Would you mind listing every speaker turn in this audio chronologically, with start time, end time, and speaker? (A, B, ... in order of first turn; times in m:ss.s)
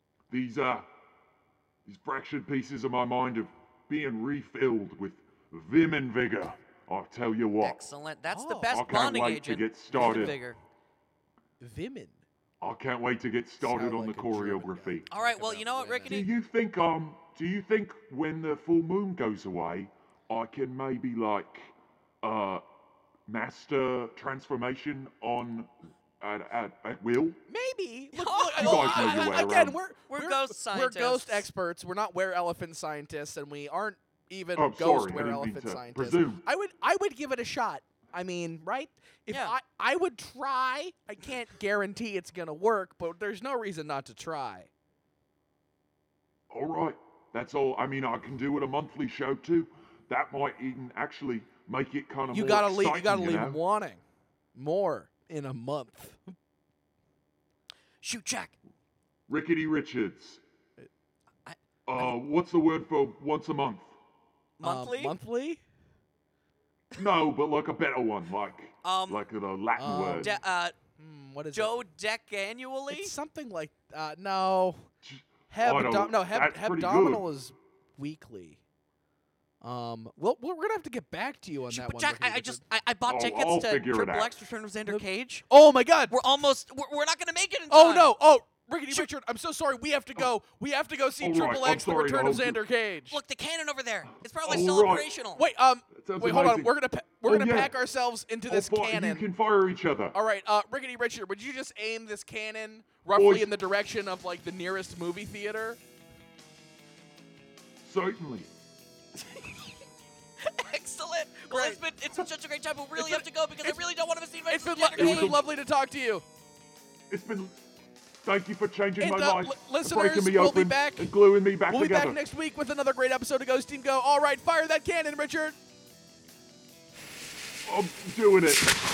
0:00.3-0:00.9 A
0:01.8-0:07.8 A
0:07.6-0:10.6 B
0:08.3-0:08.8 C
0:08.7-0:10.4 A
0:09.9-0:10.4 C
0:11.6-0:12.2 C
0:12.6-0:15.0 A
0:13.6-0:16.3 C
0:15.1-0:16.3 B
0:16.1-0:22.6 A
0:23.3-0:27.4 A
0:27.5-0:44.7 C
0:28.1-0:31.5 B
0:28.6-0:29.8 A
0:34.6-0:36.4 A
0:39.3-0:39.5 B
0:46.5-0:53.6 A
0:52.3-0:54.0 C
0:54.5-0:56.3 C
0:58.0-0:58.6 B
0:59.3-1:00.4 A
1:01.4-1:02.2 B
1:01.8-1:03.9 A
1:04.6-1:05.2 B
1:04.6-1:05.6 C
1:07.0-1:10.3 A
1:08.8-1:09.2 B
1:09.8-1:10.4 C
1:10.2-1:10.8 B
1:11.0-1:11.8 C
1:11.5-1:13.1 B
1:12.9-1:14.9 C
1:15.0-1:17.2 A
1:15.5-1:18.6 C
1:19.6-1:22.6 C
1:21.7-1:25.4 B
1:23.0-1:24.3 A
1:24.8-1:26.1 C
1:26.1-1:28.1 B
1:27.7-1:33.2 C
1:31.2-1:32.6 A
1:33.1-1:35.4 B
1:34.4-1:35.1 A
1:35.4-1:39.2 C
1:35.9-1:36.7 A
1:37.2-1:37.8 A
1:38.5-1:40.2 A
1:40.1-1:45.8 C
1:43.1-1:43.5 A
1:47.8-1:48.5 A
1:50.4-1:55.4 B
1:51.5-1:51.8 C
1:53.0-1:53.8 C
1:54.5-1:56.2 C
1:54.9-1:55.5 A
1:57.1-1:57.6 A
1:58.2-2:02.2 A
1:59.0-2:01.1 C
2:01.7-2:05.6 C
2:07.6-2:08.7 A